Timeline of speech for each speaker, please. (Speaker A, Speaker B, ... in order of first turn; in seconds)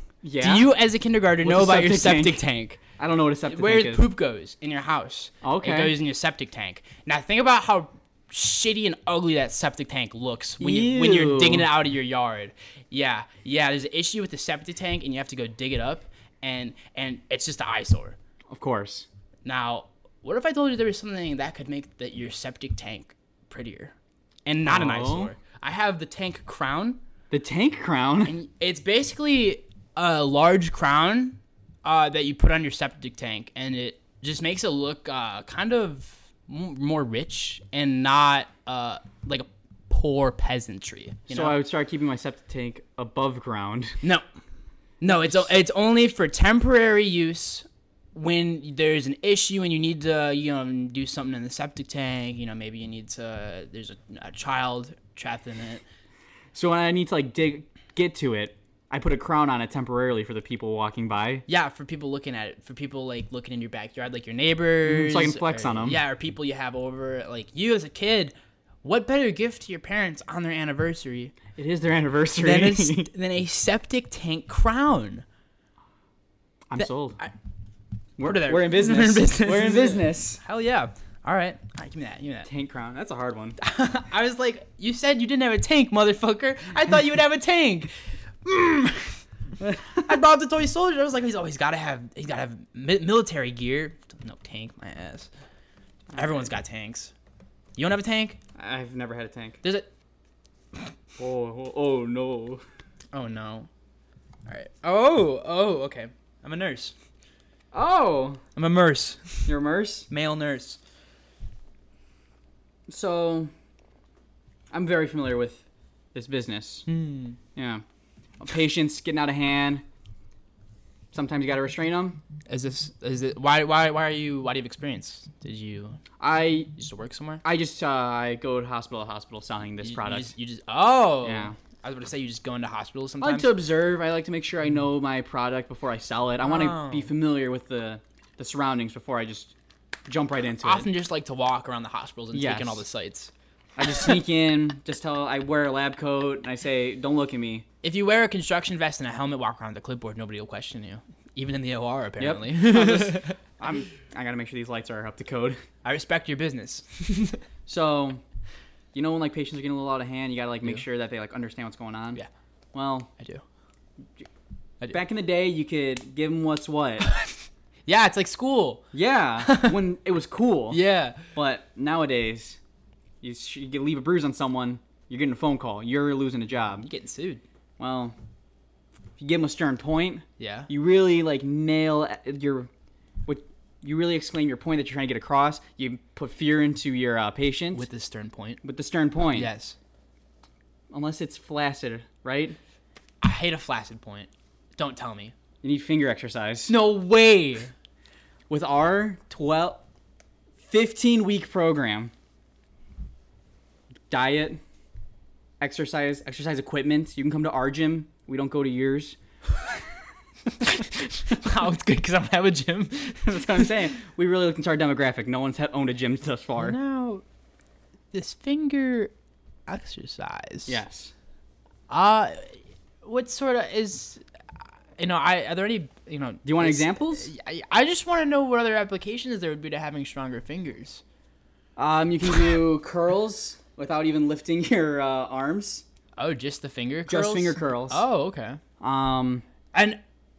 Speaker A: 0.2-0.7, 1.4-2.4, 3.0-4.1, 5.4-5.9, 10.6-11.7, 18.5-19.1, 24.6-25.3, 27.3-28.4, 41.3-44.0, 45.1-45.4, 56.5-61.5, 64.8-66.0, 71.6-73.1, 76.7-77.2, 78.2-80.4, 82.5-83.6, 96.1-96.5, 98.6-99.6, 101.2-102.6, 107.7-108.4, 109.5-110.1, 112.9-113.5, 114.7-116.9, 117.5-117.8, 118.4-119.8, 121.1-122.2, 126.2-126.7, 127.4-130.3, 131.2-131.6, 133.2-139.5, 140.1-140.9, 142.3-142.8, 143.8-147.7, 152.2-155.6, 157.7-158.2, 158.9-162.2, 162.7-163.1, 164.9-167.1, 168.9-172.6, 173.2-176.9, 177.8-178.2, 179.2-182.7, 183.3-187.9, 188.6-189.5, 190.9-192.6, 195.6-196.7, 198.5-199.8, 200.6-202.1, 204.1-204.6, 205.6-209.2, 213.2-216.8, 220.7-221.1, 226.4-227.3, 231.8-235.8, 237.1-238.0, 238.8-239.4
Speaker B: 0.4-2.8, 3.5-18.2, 19.4-23.9, 24.5-27.0, 28.3-41.6, 45.0-55.8, 61.5-71.4, 72.4-75.2, 76.8-77.3, 78.2-82.5, 83.6-87.9, 88.4-89.2, 90.0-95.3, 96.2-97.1, 97.8-98.4, 99.6-99.9, 103.1-103.7, 104.5-107.0, 108.6-109.5, 110.1-110.8, 116.9-117.4, 122.5-126.0, 126.8-127.4, 129.8-133.5, 136.4-137.1, 140.6-143.3, 147.8-153.4, 155.8-157.4, 167.1-168.9, 169.4-169.8, 170.7-171.3, 176.8-177.4, 180.4-180.7, 187.7-188.6, 189.3-189.8, 193.2-195.3, 196.7-197.7, 210.7-213.7, 216.6-217.2, 218.1-219.1, 219.7-220.8, 221.9-224.2, 225.0-231.0, 236.2-238.6, 239.7-240.0